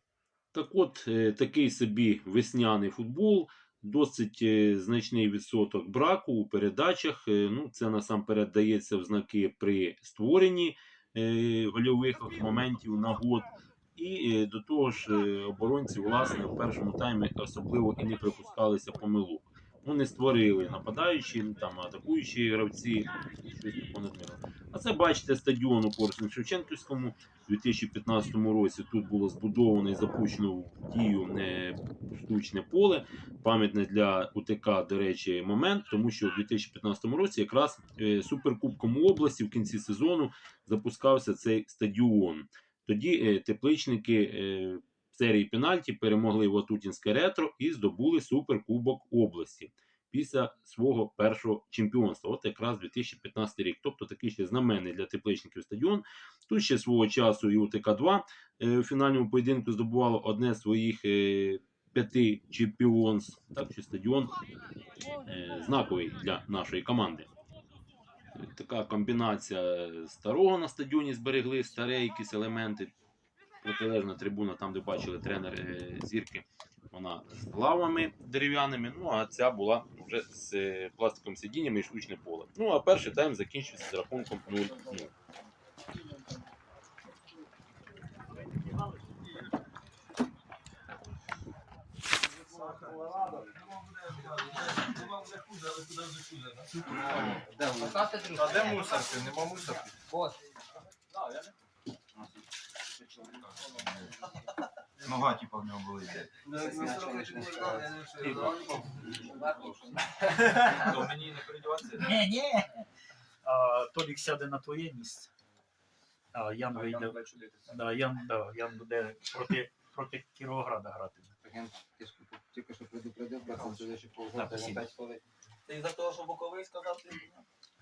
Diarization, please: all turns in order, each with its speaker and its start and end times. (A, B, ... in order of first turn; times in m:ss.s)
0:00.5-1:04.3 A
1:05.2-1:07.3 A
1:08.4-1:12.9 A
1:13.6-1:25.1 A
1:33.6-1:36.7 B
1:35.0-1:35.5 C
1:36.9-1:39.0 D
1:38.4-1:39.8 C
1:38.4-1:39.6 B
1:40.0-1:40.4 D
1:43.6-1:43.9 B
1:45.0-1:46.3 B
1:46.4-1:48.8 C
1:46.4-1:50.8 D
1:50.7-1:52.0 B
1:52.0-1:52.8 E
1:53.4-1:55.3 E
1:56.3-2:01.3 E
1:56.9-1:57.6 C
2:01.4-2:05.2 D
2:05.7-2:07.4 C